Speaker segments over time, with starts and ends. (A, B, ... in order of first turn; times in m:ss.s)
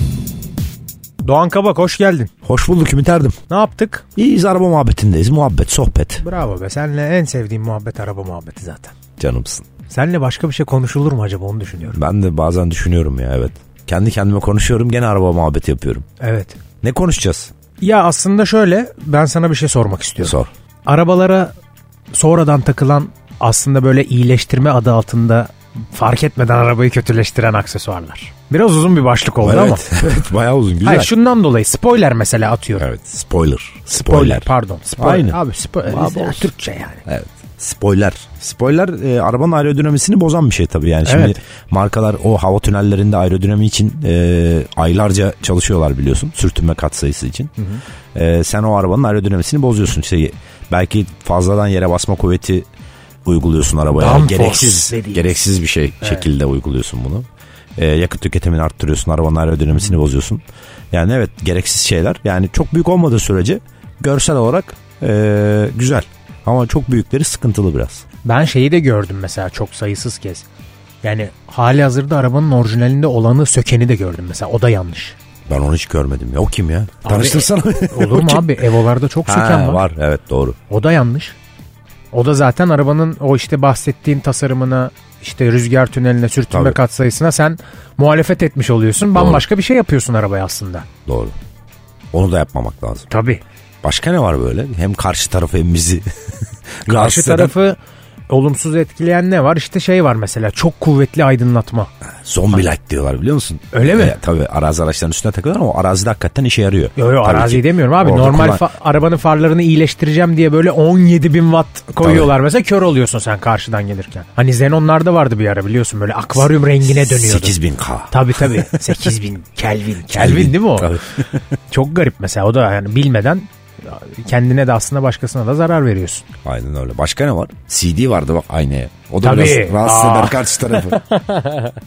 0:01.2-0:02.3 A
0:02.4-0:03.4 B
0:03.5-0:04.0 A
0:04.2-0:06.2 B
0:06.2-0:08.9 A
0:09.2-0:09.7 B
0:09.9-0:12.0 A
0:11.9-0:16.0 B
0:16.2-0:16.6 A
0:16.8-0:17.5 B
0:17.8-0:21.5 A
0:20.2-0:20.5 B
0:22.1-0:29.8 A
0:29.4-0:31.1 B
0:30.8-0:32.9 A
0:32.8-0:36.5 B
0:33.9-0:37.0 A
0:37.0-0:47.5 B
0:41.0-0:41.3 A
0:48.1-0:52.6 B
0:53.2-0:57.2 B
0:53.9-0:55.4 A
0:56.0-0:56.3 A
0:57.8-1:08.0 B
1:08.2-1:10.4 A
1:11.0-1:15.2 A
1:15.5-1:18.6 B
1:17.0-1:19.8 A
1:19.2-1:20.6 B
1:20.7-1:21.4 A
1:22.1-1:30.9 A
1:26.5-1:26.8 B
1:29.1-1:29.4 B
1:31.1-1:31.3 B
1:32.1-1:33.1 B
1:33.1-1:33.4 A
1:33.8-1:36.1 B
1:36.8-1:37.5 B
1:36.9-1:37.8 A
1:38.3-1:41.9 A
1:42.2-1:48.6 B
1:43.7-1:44.2 A
1:47.0-1:57.6 A
1:52.0-1:52.3 B
1:56.8-1:58.8 B
1:58.1-2:01.0 A
2:00.1-2:01.4 B
2:01.7-2:06.2 A
2:06.4-2:11.0 B
2:09.2-2:11.7 A